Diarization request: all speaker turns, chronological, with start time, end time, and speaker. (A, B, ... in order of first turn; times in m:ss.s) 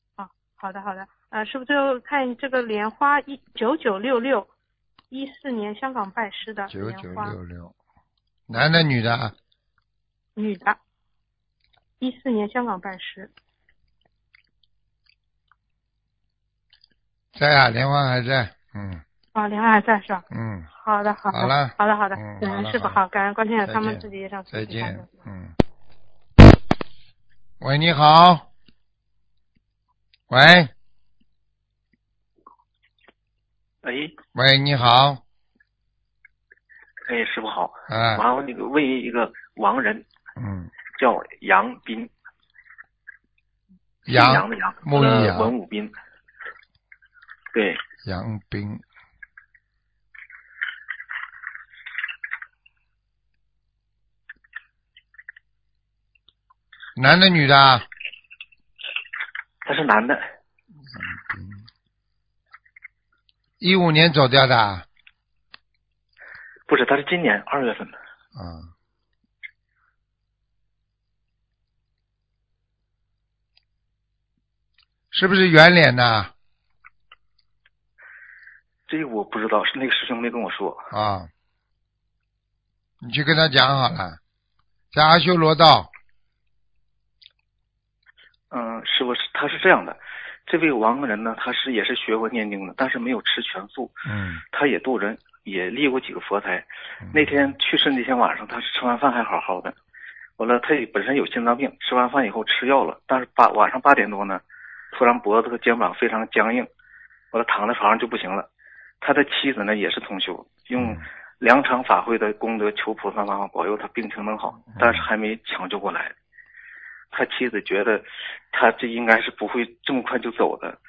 0:00.2-0:04.5 A
0:05.1-0:07.4 A
0:06.7-0:07.7 B
0:08.5-0:09.4 B
0:10.4-0:10.8 A
0:12.0-0:13.3 A
0:17.4-0:19.0 B
0:19.4-0:20.2 A
0:20.3-0:20.7 B
0:20.8-0:25.1 A
0:21.3-0:23.0 B
0:23.6-0:25.5 B
0:27.6-0:28.5 B
0:30.3-0:30.7 B
0:33.8-0:34.1 C
0:34.4-0:35.2 B
0:37.1-0:40.0 C
0:37.9-0:38.3 B
0:40.4-0:40.7 B
0:41.0-0:42.1 C
0:44.1-0:45.5 B
0:44.1-0:45.9 C
0:47.5-0:47.8 C
0:48.0-0:48.8 B
0:57.0-0:57.9 B
0:59.6-1:00.2 C
1:00.9-1:01.6 B
1:03.6-1:04.9 B
1:06.7-1:08.0 C
1:08.4-1:08.7 B
1:15.1-1:16.3 B
1:18.9-1:20.9 C
1:20.9-1:21.3 B
1:23.0-1:24.2 B
1:24.9-1:25.9 B
1:28.5-1:39.8 C
1:34.1-1:34.4 B
1:37.0-1:37.4 B
1:40.4-1:46.7 C
1:47.3-1:48.5 C
1:49.0-1:56.1 C
1:50.8-1:51.0 B
1:54.7-1:55.1 B
1:57.1-2:00.8 C